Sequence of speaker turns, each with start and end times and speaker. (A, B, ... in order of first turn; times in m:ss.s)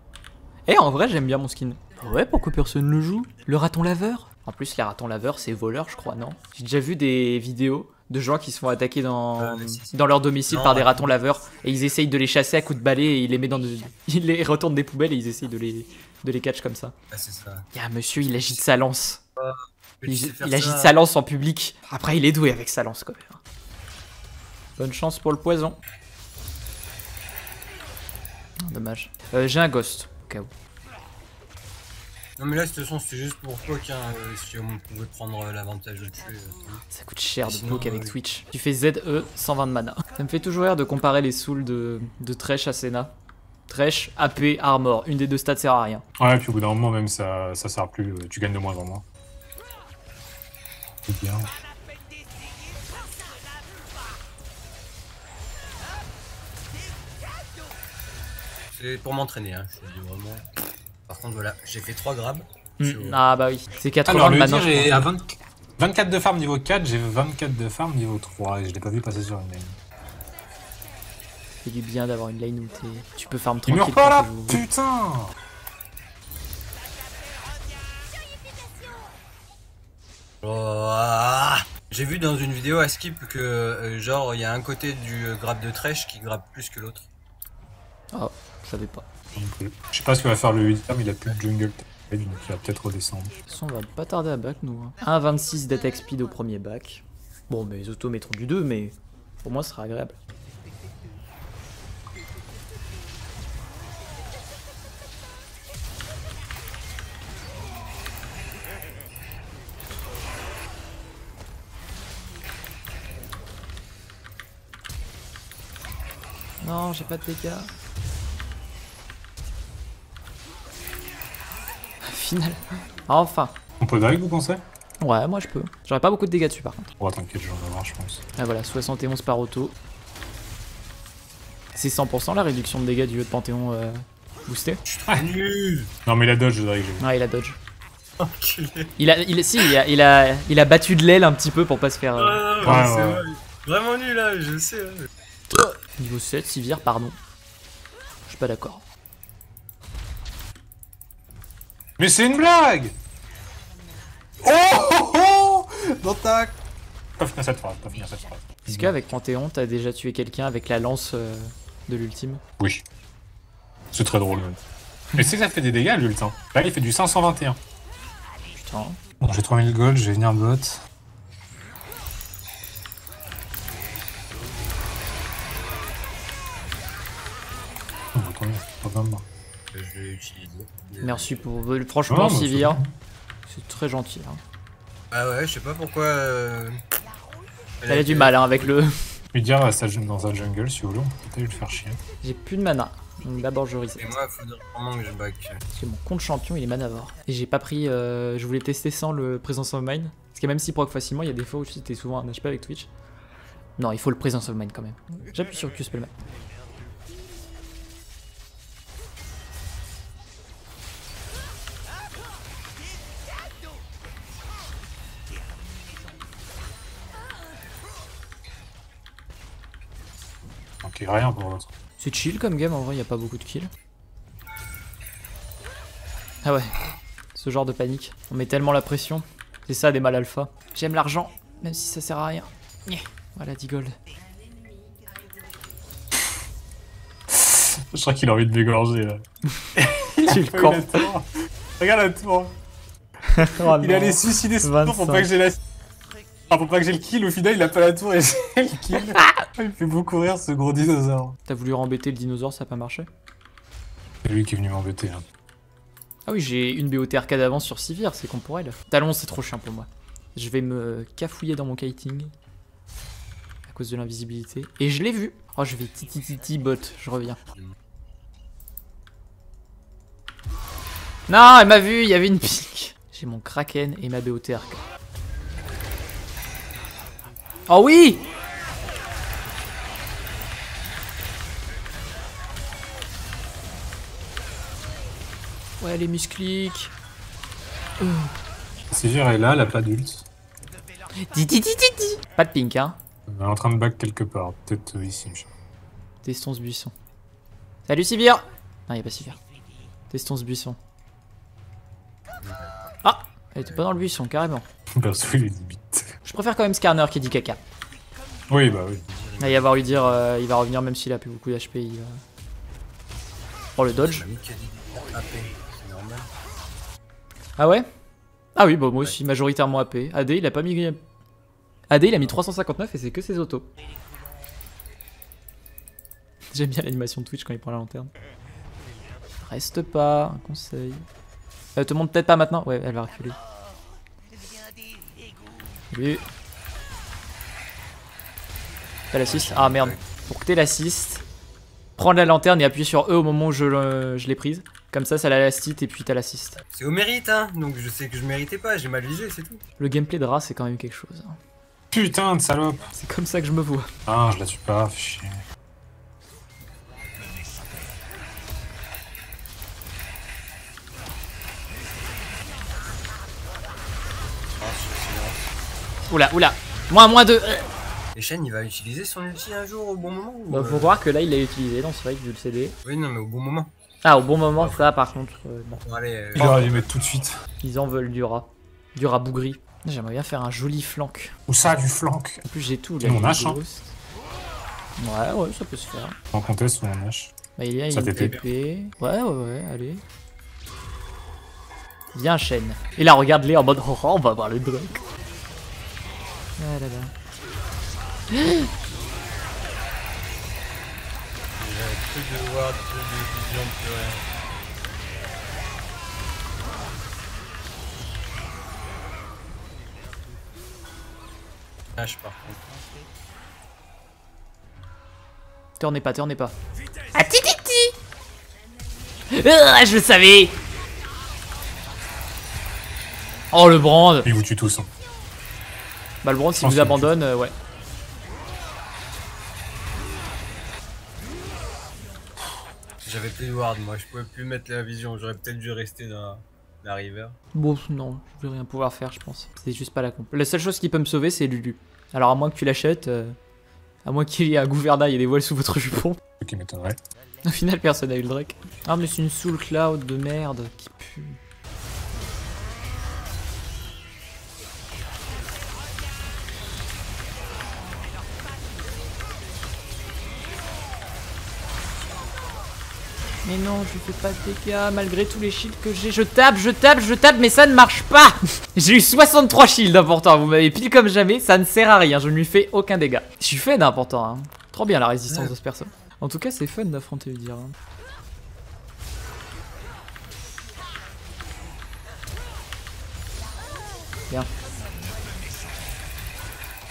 0:00.7-0:16.9 A
0:09.4-0:10.0 B
0:10.5-0:11.1 B
0:17.1-0:17.7 B
0:17.7-0:19.2 A
0:19.4-0:21.0 B
0:20.1-0:23.4 A
0:24.8-0:25.8 A
0:28.6-0:30.5 A
0:32.4-0:36.8 B
0:36.9-0:43.1 A
0:37.4-0:38.2 B
0:43.7-0:46.0 A
0:46.2-0:49.0 C
0:51.1-0:51.5 C
0:58.8-1:00.5 B
1:01.1-1:03.2 B
1:02.8-1:05.1 A
1:04.1-1:09.8 C
1:11.6-1:14.6 A
1:13.7-1:15.3 C
1:20.4-1:27.1 B
1:28.1-1:29.0 A
1:29.4-1:33.4 C
1:33.5-1:40.2 A
1:56.6-1:57.7 A
2:02.1-2:03.6 A
2:03.8-2:04.6 C
2:05.0-2:06.9 A
2:07.0-2:08.2 C
2:08.4-2:09.8 A
2:11.7-2:14.8 A
2:14.9-2:15.9 B
2:16.1-2:17.1 C
2:17.0-2:17.6 A
2:18.2-2:18.9 B
2:19.0-2:22.9 A
2:22.2-2:25.1 B
2:22.6-2:23.2 C
2:25.5-2:27.2 A
2:28.3-2:28.8 A
2:32.0-2:33.0 C
2:34.4-2:36.6 C
2:37.2-2:39.0 C
2:38.6-2:42.4 A
2:42.6-2:42.8 C
2:43.9-2:44.6 C
2:45.2-2:47.6 C
2:48.6-2:49.0 A
2:49.2-2:50.8 C
2:58.2-2:59.2 C
2:59.7-3:01.4 B
3:01.0-3:02.8 A
3:02.1-3:02.9 C
3:03.5-3:04.4 A
3:05.1-3:06.8 B
3:07.8-3:08.7 B
3:07.9-3:08.9 A
3:09.3-3:12.0 C
3:12.2-3:14.1 A
3:14.0-3:15.6 B
3:15.7-3:22.9 A
3:23.8-3:26.1 A
3:40.8-3:41.7 C
3:42.0-3:43.7 A
3:46.4-3:46.7 A
3:47.4-3:54.0 A
3:57.3-3:59.2 C
3:59.8-4:02.6 C
4:00.2-4:01.1 A
4:03.3-4:05.3 A
4:03.5-4:05.6 C
4:06.5-4:11.4 C
4:09.0-4:09.5 A
4:11.5-4:13.1 A
4:14.2-4:15.2 C
4:16.3-4:22.3 A
4:23.7-4:27.4 A
4:31.3-4:34.8 A
4:37.7-4:38.2 A
4:45.8-4:46.9 A
4:48.0-4:48.3 A
4:48.9-4:50.3 C
4:51.2-4:53.0 A
4:53.3-4:55.5 C
4:56.2-4:56.9 A
4:57.9-4:59.4 A
5:00.1-5:00.8 A
5:02.4-5:02.9 B
5:03.0-5:04.6 A
5:03.6-5:04.0 B
5:05.0-5:06.1 C
5:06.2-5:07.6 A
5:08.5-5:09.0 C
5:09.1-5:10.2 B
5:09.4-5:12.2 A
5:13.8-5:14.3 A
5:14.0-5:16.3 B
5:17.6-5:17.9 A
5:18.6-5:21.0 A
5:21.9-5:23.7 A
5:26.5-5:28.1 A
5:29.4-5:31.0 A
5:31.8-5:33.4 A
5:35.9-5:36.2 A
5:39.1-5:41.2 A
5:39.2-5:40.0 B
5:42.0-5:46.6 A
5:46.7-5:49.6 B
5:49.8-5:51.4 A
5:51.9-5:52.8 C
5:52.9-5:53.9 A
5:54.1-5:55.4 C
6:04.6-6:05.4 B
6:06.1-6:07.7 A
6:08.2-6:11.0 B
6:10.5-6:12.8 A
6:12.8-6:13.7 B
6:14.0-6:15.8 A
6:14.6-6:14.9 B
6:15.8-6:16.8 B
6:16.4-6:17.4 C
6:17.6-6:21.4 A
6:21.5-6:22.4 C
6:22.5-6:24.0 A
6:23.0-6:23.6 C
6:25.0-6:26.2 A
6:26.3-6:27.3 C
6:27.6-6:30.0 A
6:27.9-6:28.4 C
6:32.1-6:35.0 A
6:36.6-6:37.1 A
6:38.3-6:38.7 A
6:41.6-6:44.2 B
6:52.0-6:52.6 B
6:55.8-6:56.5 A
6:57.1-6:57.9 A
6:59.3-7:00.6 A
7:03.5-7:04.3 A
7:04.2-7:04.9 C
7:06.2-7:07.5 A
7:06.6-7:07.1 C
7:13.0-7:17.4 B
7:17.5-7:23.4 A
7:24.0-7:26.2 A
7:26.4-7:27.0 C
7:27.5-7:31.4 A
7:43.4-7:57.8 A